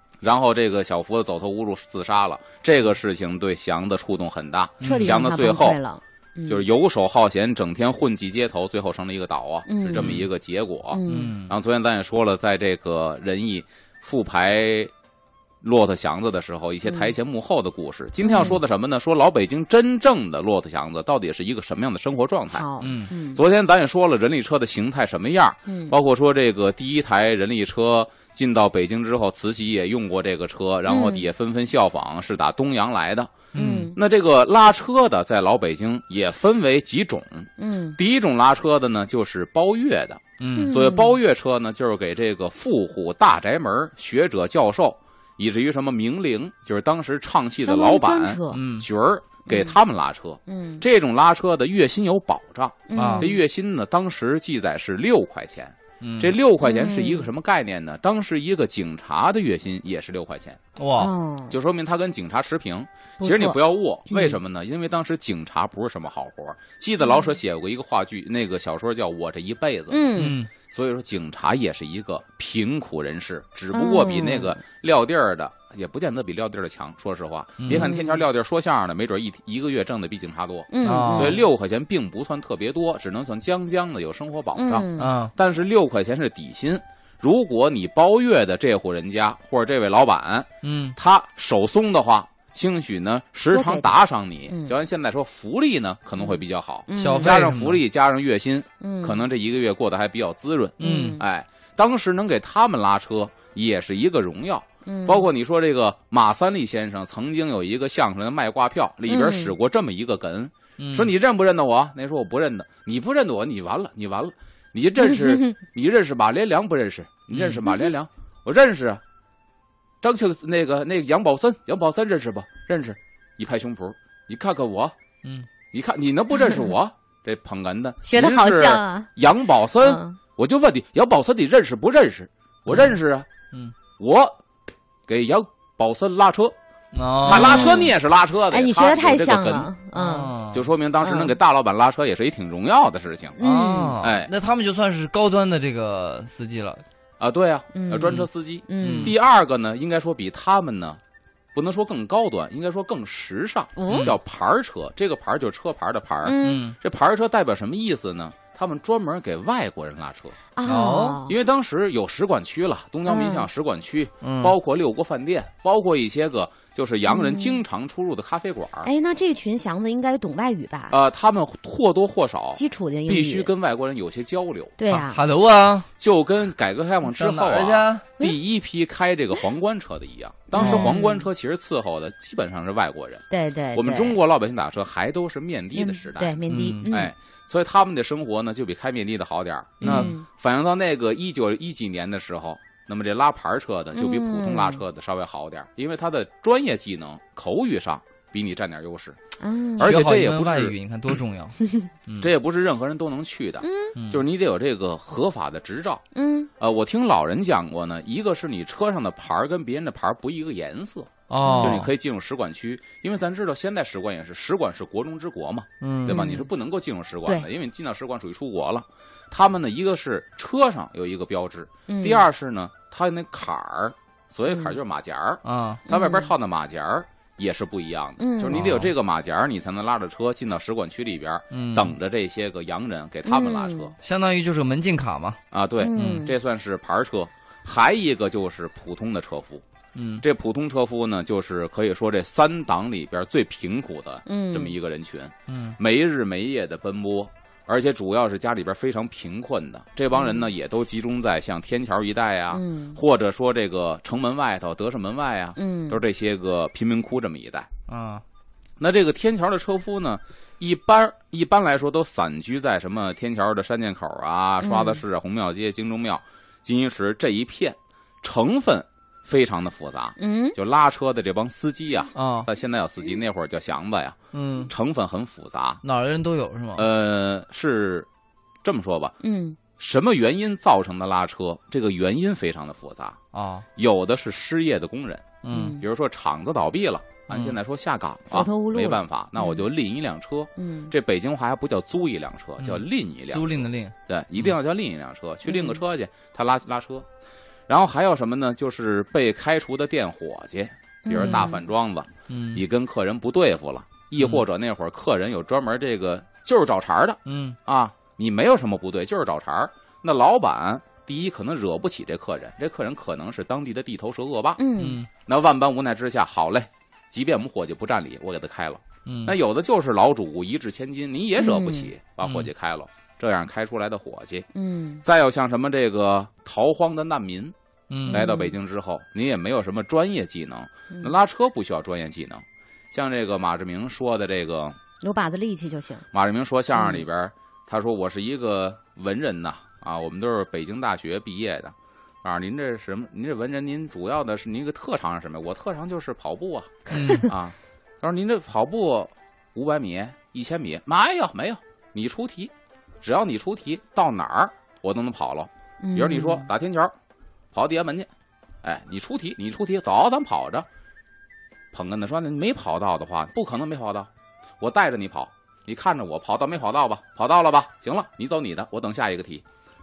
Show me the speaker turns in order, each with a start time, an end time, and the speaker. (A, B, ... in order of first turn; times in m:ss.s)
0:00.2-0:05.8 A
0:04.8-0:05.2 B
0:04.8-0:06.6 C
0:06.5-0:14.9 A
0:09.7-0:10.2 C
0:10.0-0:10.2 B
0:10.9-0:11.4 C
0:11.1-0:11.5 B
0:15.6-0:33.4 A
0:16.9-0:17.1 C
0:18.2-0:18.6 C
0:22.5-0:23.4 C
0:22.8-0:23.1 B
0:25.7-0:26.0 C
0:30.9-0:31.3 C
0:33.5-0:33.9 B
0:33.6-0:34.0 C
0:33.9-1:00.6 A
0:37.6-0:38.0 C
0:40.4-0:40.7 B
0:40.6-0:41.2 C
0:47.6-0:48.6 C
0:48.5-0:48.9 B
0:49.5-0:49.8 C
0:50.5-0:50.8 C
0:52.9-0:53.4 C
0:52.9-0:53.3 B
0:56.0-0:56.4 B
0:56.6-0:57.3 C
1:00.8-1:01.1 B
1:01.0-1:01.6 C
1:01.5-1:59.0 A
1:03.2-1:03.6 C
1:04.1-1:04.4 C
1:07.0-1:07.3 C
1:09.9-1:10.4 C
1:10.2-1:10.5 B
1:13.7-1:14.6 C
1:17.6-1:17.9 B
1:17.7-1:18.2 C
1:20.7-1:21.4 C
1:20.8-1:21.4 B
1:24.6-1:25.1 C
1:25.0-1:25.3 B
1:30.6-1:31.0 B
1:33.5-1:34.0 C
1:34.5-1:34.8 C
1:36.2-1:37.4 C
1:37.0-1:37.8 B
1:38.8-1:39.2 C
1:40.8-1:41.2 B
1:40.8-1:41.2 C
1:44.8-1:45.3 C
1:49.1-1:49.5 C
1:50.8-1:51.1 B
1:55.1-1:55.6 C
1:57.3-1:57.6 B
2:00.0-2:05.0 A
2:05.7-2:13.3 A
2:08.0-2:09.1 C
2:09.8-2:10.2 C
2:14.0-2:14.4 A
2:15.1-2:16.6 A
2:16.9-2:17.9 B
2:17.2-2:19.7 A
2:17.3-2:17.9 C
2:18.5-2:20.4 C
2:19.9-2:20.6 B
2:20.5-2:23.4 A
2:21.0-2:21.4 C
2:23.4-2:24.0 C
2:23.4-2:26.8 B
2:24.0-2:24.3 A
2:27.2-2:31.0 A
2:27.7-2:29.2 C
2:28.8-2:29.1 B
2:31.6-2:40.4 A
2:33.8-2:34.2 C
2:33.9-2:34.2 B
2:36.2-2:36.7 C
2:36.4-2:36.8 B
2:40.6-2:41.4 C
2:40.6-2:41.2 B
2:41.2-2:48.9 A
2:43.1-2:43.5 C
2:44.2-2:44.6 B
2:47.1-2:47.6 C
2:48.8-2:51.0 C
2:50.9-2:54.8 A
2:52.6-2:53.5 C
2:54.8-2:55.2 C
2:54.9-2:55.9 B
2:56.0-3:19.2 A
2:57.1-2:58.1 B
3:00.5-3:01.3 C
3:00.6-3:00.9 B
3:03.3-3:04.2 C
3:05.8-3:07.1 C
3:06.5-3:06.9 B
3:09.8-3:10.2 C
3:09.8-3:10.1 B
3:14.0-3:14.8 C
3:19.4-3:19.9 C
3:19.8-3:21.2 A
3:19.8-3:22.3 B
3:22.2-3:26.0 A
3:23.6-3:24.0 C
3:24.0-3:24.2 B
3:26.2-3:26.5 C
3:26.6-3:54.0 A
3:31.3-3:31.9 B
3:31.4-3:31.8 C
3:35.8-3:36.2 B
3:36.1-3:36.5 C
3:41.9-3:42.2 C
3:44.5-3:44.8 C
3:45.4-3:45.8 B
3:45.9-3:46.3 C
3:48.2-3:48.6 C
3:48.5-3:48.9 B
3:51.5-3:52.0 B
3:53.3-3:53.9 C
3:54.0-3:55.4 B
3:55.5-3:59.6 A
3:55.8-3:56.3 C
3:55.9-3:56.3 B
3:59.9-4:00.2 B
4:00.2-4:17.7 A
4:04.3-4:04.8 C
4:05.5-4:05.8 B
4:10.1-4:10.5 C
4:12.5-4:13.0 C
4:15.6-4:16.0 C
4:17.9-4:18.2 B
4:18.8-4:34.2 A
4:24.6-4:25.0 C
4:30.2-4:30.6 C
4:32.2-4:32.5 B
4:34.3-4:34.7 B
4:34.7-4:35.8 A
4:35.8-4:36.9 B
4:36.8-4:38.1 A
4:38.6-4:39.2 A
4:39.2-4:39.6 C
4:39.8-4:43.2 A
4:43.3-4:43.7 B
4:43.8-4:57.1 A
4:45.4-4:45.8 B
4:45.5-4:45.8 C
4:47.3-4:47.6 B
4:48.3-4:49.7 C
4:50.6-4:50.9 C
4:52.6-4:54.5 B
4:55.5-4:55.8 C
4:57.7-5:14.6 A
5:01.1-5:01.6 C
5:01.2-5:01.5 B
5:02.3-5:02.6 B
5:07.3-5:07.6 B
5:14.6-5:15.0 C
5:14.8-5:15.1 B
5:15.2-5:24.5 A
5:19.1-5:19.4 B
5:21.4-5:21.9 C
5:22.2-5:22.5 B
5:24.6-5:25.0 C
5:25.0-5:27.6 A
5:27.9-5:28.2 B
5:28.1-5:34.8 A
5:28.1-5:28.5 C
5:35.0-5:36.1 C
5:36.1-5:56.9 A
5:36.8-5:37.0 C
5:46.9-5:47.3 B
5:55.8-5:56.5 C
5:57.5-5:58.1 A
5:58.6-6:00.7 A
6:01.7-6:09.4 A